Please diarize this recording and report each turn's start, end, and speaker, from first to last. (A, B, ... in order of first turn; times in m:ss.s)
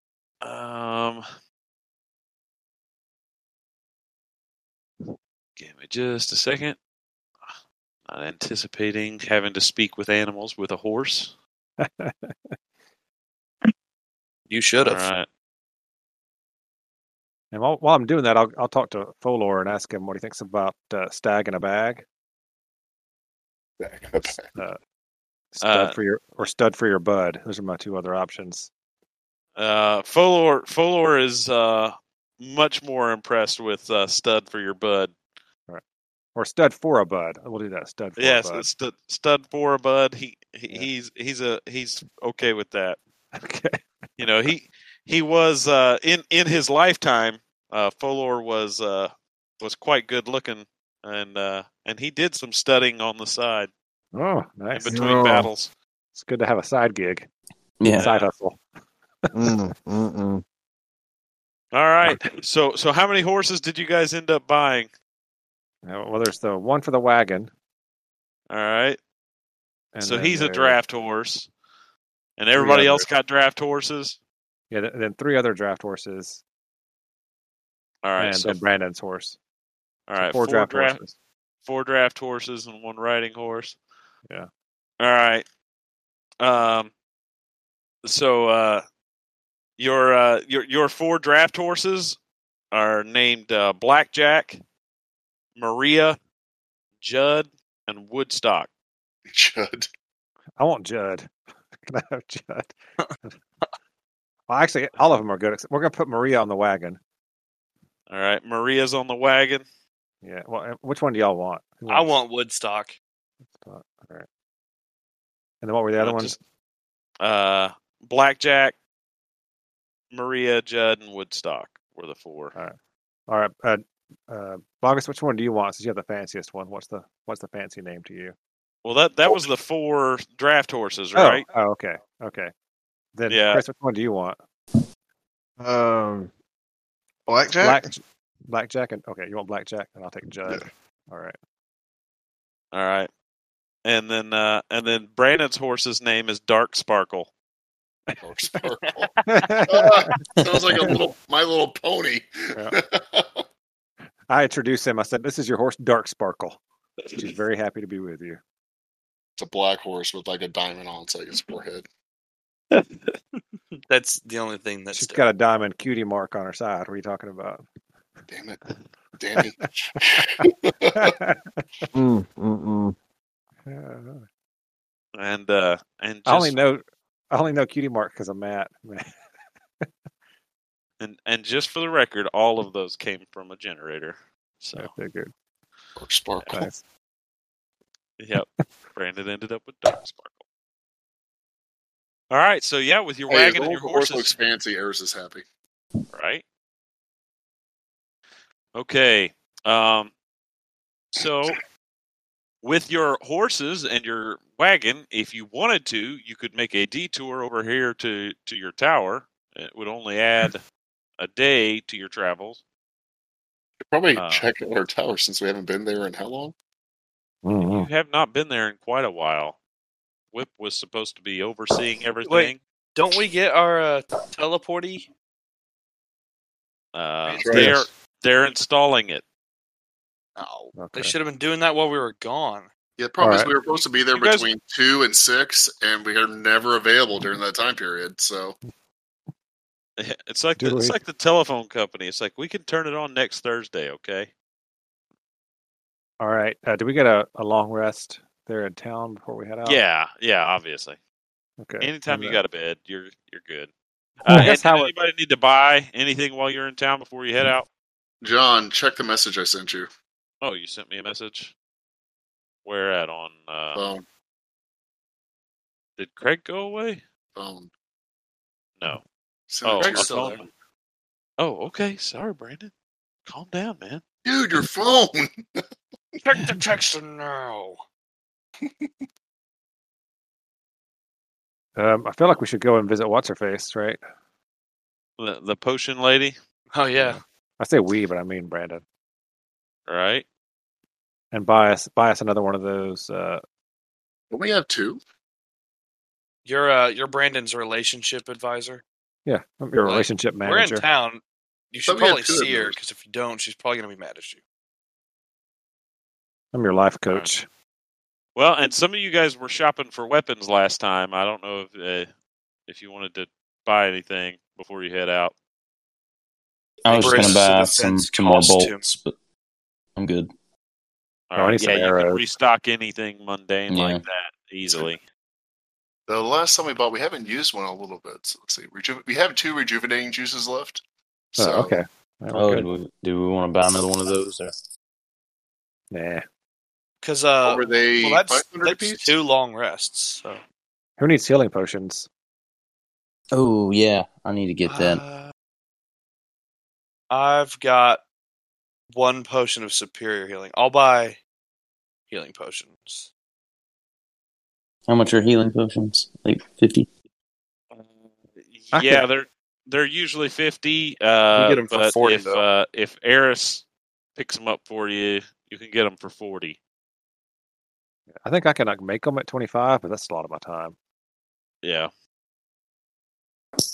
0:00.4-0:01.2 A
0:05.6-0:06.8 A
0:08.1-0:11.3 A
0:11.8-0:12.5 B
0:14.5-0:15.1 C
0:14.8-0:15.3 A
0:17.5-0:22.0 B
0:23.8-0:24.5 D
0:24.4-0:24.8 B
0:25.5-0:28.7 B
0:25.6-0:26.0 A
0:29.6-0:35.2 A
0:36.4-0:38.7 B
0:38.2-0:43.0 A
0:43.4-0:43.8 B
0:44.2-0:53.7 A
0:54.1-0:55.2 B
0:54.7-0:55.7 A
0:54.9-0:55.5 E
0:56.1-0:57.3 B
0:57.8-0:58.1 F
0:58.0-0:58.3 A
0:58.0-0:58.6 B
0:59.3-1:00.4 E
1:01.7-1:04.9 A
1:05.8-1:07.5 B
1:08.5-1:09.0 A
1:10.0-1:10.8 B
1:10.0-1:11.5 A
1:12.4-1:14.2 A
1:12.5-1:13.1 B
1:14.7-1:16.4 B
1:18.0-1:18.6 A
1:18.2-1:19.4 B
1:20.1-1:21.0 A
1:20.2-1:21.1 B
1:21.6-1:23.8 A
1:25.0-1:25.4 A
1:26.4-1:26.9 A
1:28.0-1:28.8 A
1:29.8-1:32.2 A
1:32.7-1:34.6 A
1:35.6-1:36.2 A
1:37.0-1:38.7 A
1:39.3-1:39.9 D
1:40.6-1:41.3 B
1:41.9-1:42.7 B
1:44.5-1:47.0 B
1:48.1-1:49.6 A
1:50.2-1:52.2 B
1:51.9-1:53.0 C
1:53.6-1:54.3 B
1:55.6-1:56.4 B
1:56.0-1:56.4 A
1:57.2-1:58.8 A
2:00.1-2:02.6 A
2:03.3-2:08.4 B
2:08.8-2:11.4 A
2:11.2-2:12.5 B
2:13.2-2:14.4 B
2:13.3-2:13.6 A
2:15.6-2:16.3 E
2:17.3-2:17.9 E
2:17.6-2:21.4 B
2:22.7-2:23.1 A
2:23.8-2:27.3 A
2:28.2-2:29.1 D
2:29.0-2:29.5 C
2:29.3-2:30.1 B
2:29.7-2:33.4 D
2:34.3-2:36.6 B
2:37.2-2:38.4 B
2:39.4-2:41.8 D
2:43.8-2:45.2 C
2:44.9-2:47.6 B
2:48.3-2:48.6 D
2:49.2-2:51.1 D
2:51.0-2:51.6 B
2:51.9-2:53.0 E
2:53.7-2:54.2 B
2:55.1-2:56.6 A
2:56.3-2:59.1 B
3:01.0-3:04.9 A
3:04.8-3:05.3 B
3:06.0-3:06.6 D
3:06.5-3:06.8 B
3:08.2-3:10.4 A
3:12.3-3:14.4 A
3:13.3-3:15.4 D
3:16.1-3:16.4 A
3:18.7-3:20.1 A
3:21.1-3:21.6 A
3:22.6-3:30.6 A
3:31.2-3:32.6 A
3:33.9-3:36.5 D
3:34.1-3:34.5 A
3:37.4-3:37.9 B
3:37.6-3:39.6 A
3:40.3-3:42.6 A
3:42.2-3:45.1 C
3:46.9-3:49.2 A
3:47.3-3:47.6 C
3:47.4-3:47.7 D
3:47.5-3:47.8 B
3:50.4-3:52.7 C
3:50.8-3:51.1 B
3:53.0-3:58.6 D
3:53.2-3:53.5 B
3:54.1-3:54.5 A
4:00.0-4:04.3 A
4:00.6-4:01.0 B
4:06.2-4:09.8 B
4:09.6-4:11.0 A
4:11.6-4:12.4 B
4:11.8-4:13.7 A
4:14.2-4:17.7 A
4:14.3-4:14.9 B
4:18.2-4:19.9 D
4:20.4-4:21.5 A
4:22.6-4:23.8 A
4:23.7-4:24.0 D
4:26.0-4:27.0 A
4:27.4-4:27.7 D
4:29.5-4:30.4 D
4:29.6-4:30.5 A
4:29.8-4:30.4 C
4:31.4-4:32.7 A
4:33.3-4:34.0 A
4:34.2-4:35.6 D
4:36.2-4:37.8 C
4:38.6-4:38.9 D
4:41.8-4:44.0 B
4:45.2-4:46.4 A
4:46.7-4:47.2 C
4:47.0-4:48.8 B
4:49.9-4:50.3 A
4:51.3-4:53.4 B
4:54.3-4:55.0 D
4:56.4-4:58.8 C
4:59.3-5:00.9 B
4:59.8-5:04.4 C
5:01.9-5:02.8 D
5:06.5-5:07.5 B
5:08.4-5:12.1 A
5:12.7-5:15.4 A
5:16.8-5:19.1 F
5:16.9-5:18.8 C
5:20.0-5:20.3 F
5:21.3-5:25.0 A
5:21.4-5:22.2 B
5:23.7-5:24.0 F
5:26.1-5:30.8 D
5:31.4-5:31.8 D
5:31.4-5:32.7 B
5:32.3-5:34.5 F
5:35.9-5:36.2 B
5:37.0-5:40.4 C
5:37.4-5:39.2 D
5:41.0-5:42.1 B
5:43.3-5:45.0 F
5:44.7-5:45.3 C
5:47.1-5:48.0 C
5:48.9-5:51.2 C
5:52.1-5:53.1 C
5:54.9-5:56.9 F
5:57.7-6:03.6 A
5:58.7-5:59.0 B
6:01.3-6:02.4 C
6:04.2-6:06.6 A
6:08.2-6:10.8 B
6:11.6-6:11.9 A